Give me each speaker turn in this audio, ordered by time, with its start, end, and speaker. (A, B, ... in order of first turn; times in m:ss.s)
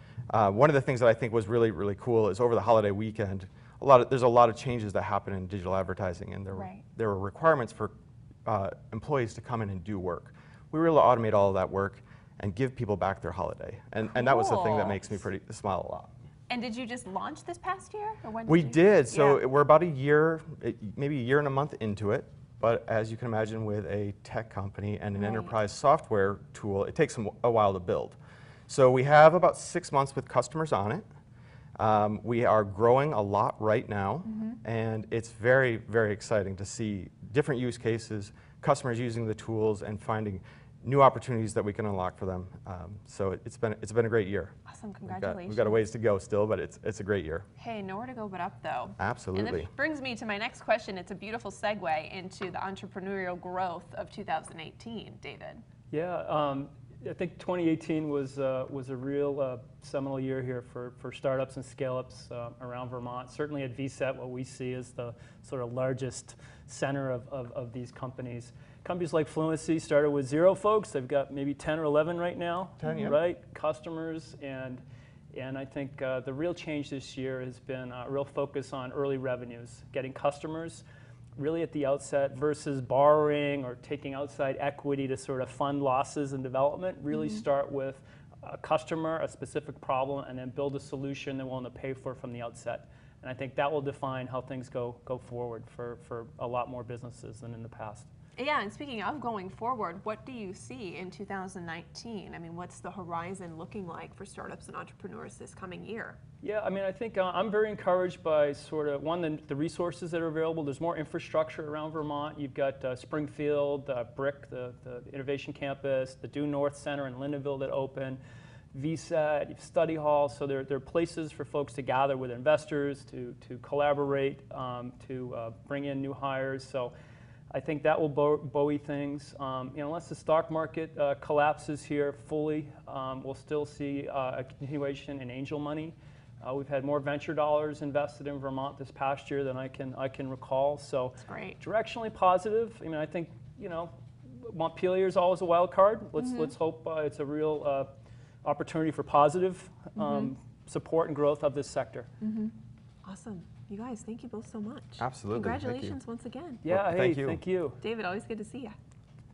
0:00.3-0:07.9 A
0:06.5-0:06.8 B
0:08.5-0:16.1 A
0:14.1-0:15.2 B
0:16.5-0:19.4 B
0:18.5-0:28.2 A
0:25.2-0:25.6 B
0:28.7-0:31.0 A
0:31.8-0:44.6 A
0:34.3-0:34.6 B
0:44.7-0:45.8 B
0:45.1-0:47.5 A
0:47.6-0:55.6 B
0:49.0-0:49.7 A
0:55.9-1:20.8 C
1:12.8-1:13.1 A
1:12.8-1:13.2 B
1:21.4-1:38.1 C
1:27.1-1:27.4 B
1:38.4-1:46.2 B
1:46.4-1:58.2 C
1:58.7-2:06.9 C
2:07.5-2:27.9 C
2:21.2-2:21.6 B
2:26.2-2:26.5 B
2:28.4-2:32.1 C
2:30.0-2:30.3 B
2:32.2-2:36.6 B
2:35.0-2:36.0 A
2:36.6-2:37.8 C
2:36.7-2:37.4 A
2:37.8-2:38.8 B